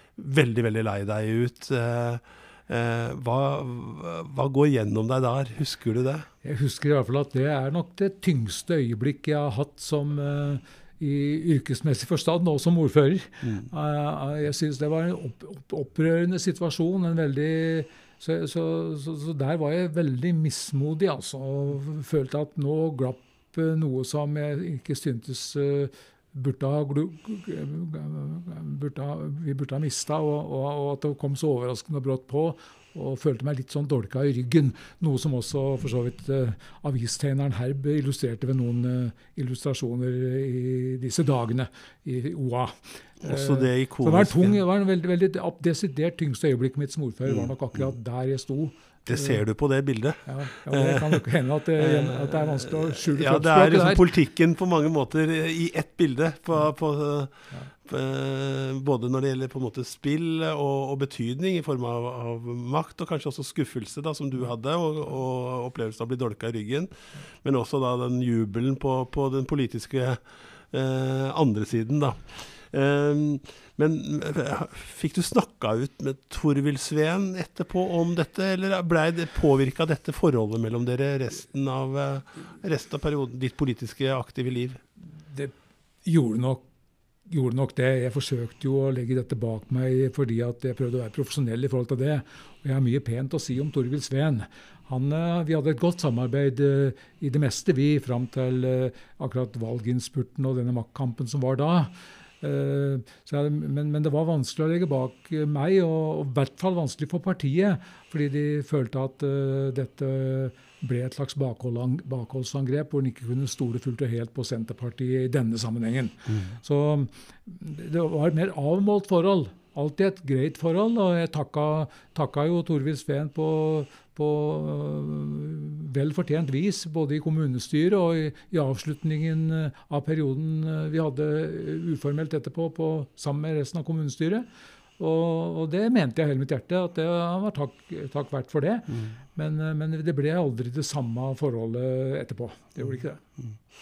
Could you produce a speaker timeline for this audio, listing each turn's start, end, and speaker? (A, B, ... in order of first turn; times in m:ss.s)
0:00.2-0:06.3 A
0:06.4-0:49.4 B
0:43.2-0:44.6 A
0:49.1-0:51.2 A
0:50.2-0:54.1 B
0:51.8-0:57.3 A
0:57.8-1:24.8 A
1:26.0-1:26.6 B
1:27.3-2:14.4 B
2:15.0-2:23.2 B